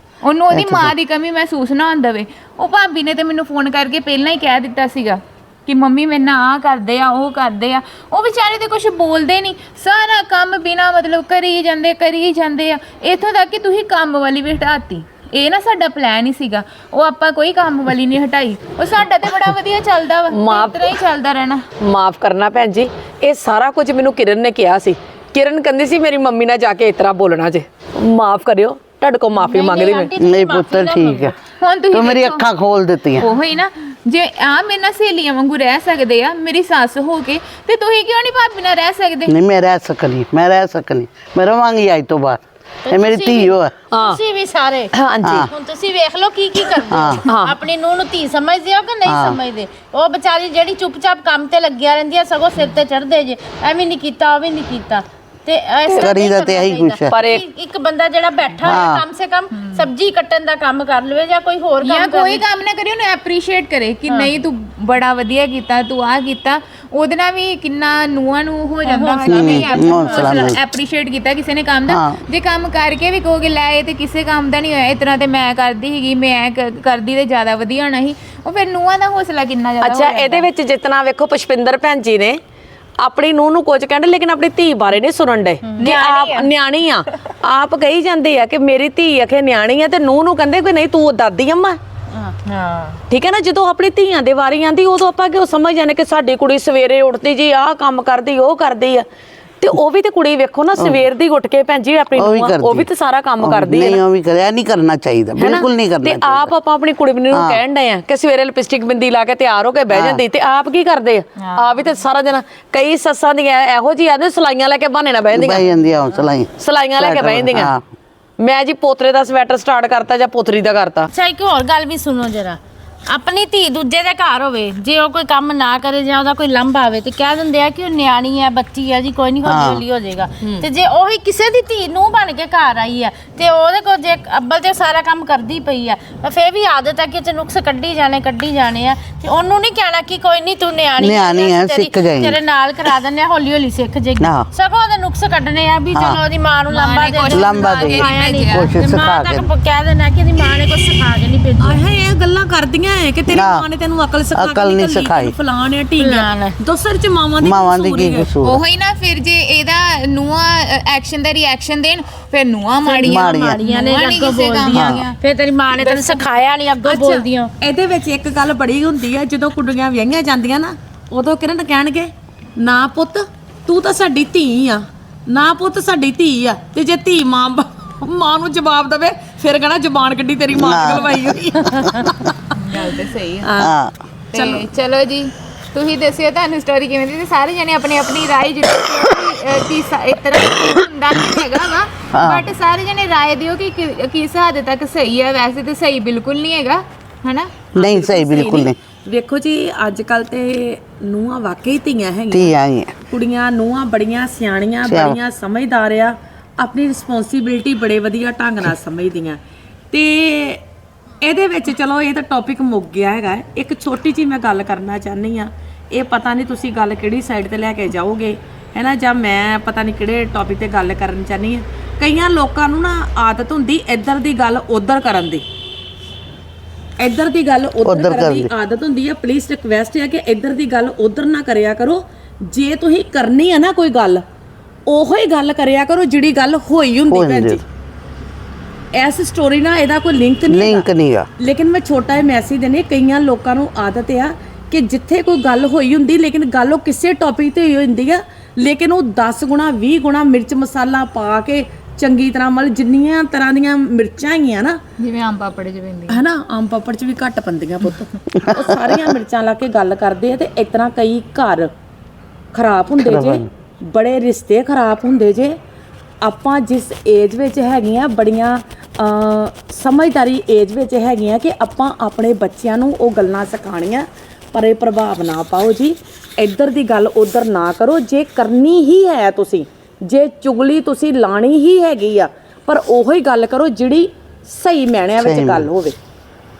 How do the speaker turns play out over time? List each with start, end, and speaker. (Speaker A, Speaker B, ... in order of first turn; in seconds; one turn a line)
Speaker A: 0.2-21.7
Speaker B: 0.5-0.9
Speaker C: 20.3-21.0
Speaker C: 21.8-30.1
Speaker D: 29.4-31.4
Speaker B: 30.2-31.4
Speaker A: 31.6-32.5
Speaker B: 31.9-33.3
Speaker A: 33.2-39.3
Speaker B: 39.3-43.7
Speaker D: 42.9-62.4
Speaker C: 43.9-44.2
Speaker C: 44.9-45.5
Speaker B: 45.2-45.5
Speaker B: 46.9-47.2
Speaker C: 47.3-47.6
Speaker B: 49.1-49.4
Speaker B: 56.0-57.2
Speaker C: 57.1-57.5
Speaker B: 58.6-59.0
Speaker A: 59.6-59.9
Speaker A: 61.8-80.5
Speaker D: 68.9-70.5
Speaker B: 69.3-70.6
Speaker B: 71.9-72.2
Speaker C: 79.8-82.4
Speaker C: 83.0-91.8
Speaker D: 85.7-86.5
Speaker D: 92.1-93.0
Speaker C: 93.1-99.1
Speaker C: 99.6-104.0
Speaker B: 100.8-101.0
Speaker B: 102.2-102.9
Speaker B: 103.4-106.5
Speaker C: 105.4-115.7
Speaker B: 107.3-107.6
Speaker B: 109.9-110.2
Speaker B: 115.3-117.8
Speaker C: 116.6-117.7
Speaker C: 118.4-121.1
Speaker D: 121.1-151.8
Speaker B: 129.4-129.8
Speaker B: 141.0-142.4
Speaker B: 144.2-144.5
Speaker B: 145.9-146.2
Speaker A: 146.7-148.7
Speaker B: 147.3-149.5
Speaker C: 147.9-148.5
Speaker C: 151.6-158.3
Speaker B: 153.3-153.7
Speaker B: 154.3-155.3
Speaker D: 156.0-156.6
Speaker B: 157.4-158.6
Speaker A: 158.4-165.2
Speaker D: 162.8-167.5
Speaker B: 163.0-163.6
Speaker B: 164.7-165.1
Speaker C: 165.8-166.1
Speaker C: 166.8-183.7
Speaker B: 180.6-182.3
Speaker A: 182.6-183.5
Speaker B: 183.6-183.9
Speaker C: 184.3-184.7
Speaker A: 184.3-197.7
Speaker B: 192.1-192.4
Speaker B: 197.8-198.8
Speaker C: 197.8-202.5
Speaker B: 202.3-203.0
Speaker C: 203.1-209.4
Speaker B: 204.8-205.2
Speaker C: 209.9-210.6
Speaker C: 211.2-225.4
Speaker C: 227.0-234.2
Speaker B: 227.8-228.5
Speaker C: 234.9-237.6
Speaker B: 237.1-237.6
Speaker C: 238.9-240.9
Speaker B: 240.5-241.3
Speaker C: 241.4-254.8
Speaker A: 255.0-256.2
Speaker C: 256.1-261.7
Speaker C: 262.5-265.6
Speaker B: 263.0-263.5
Speaker C: 266.2-286.0
Speaker B: 285.2-285.7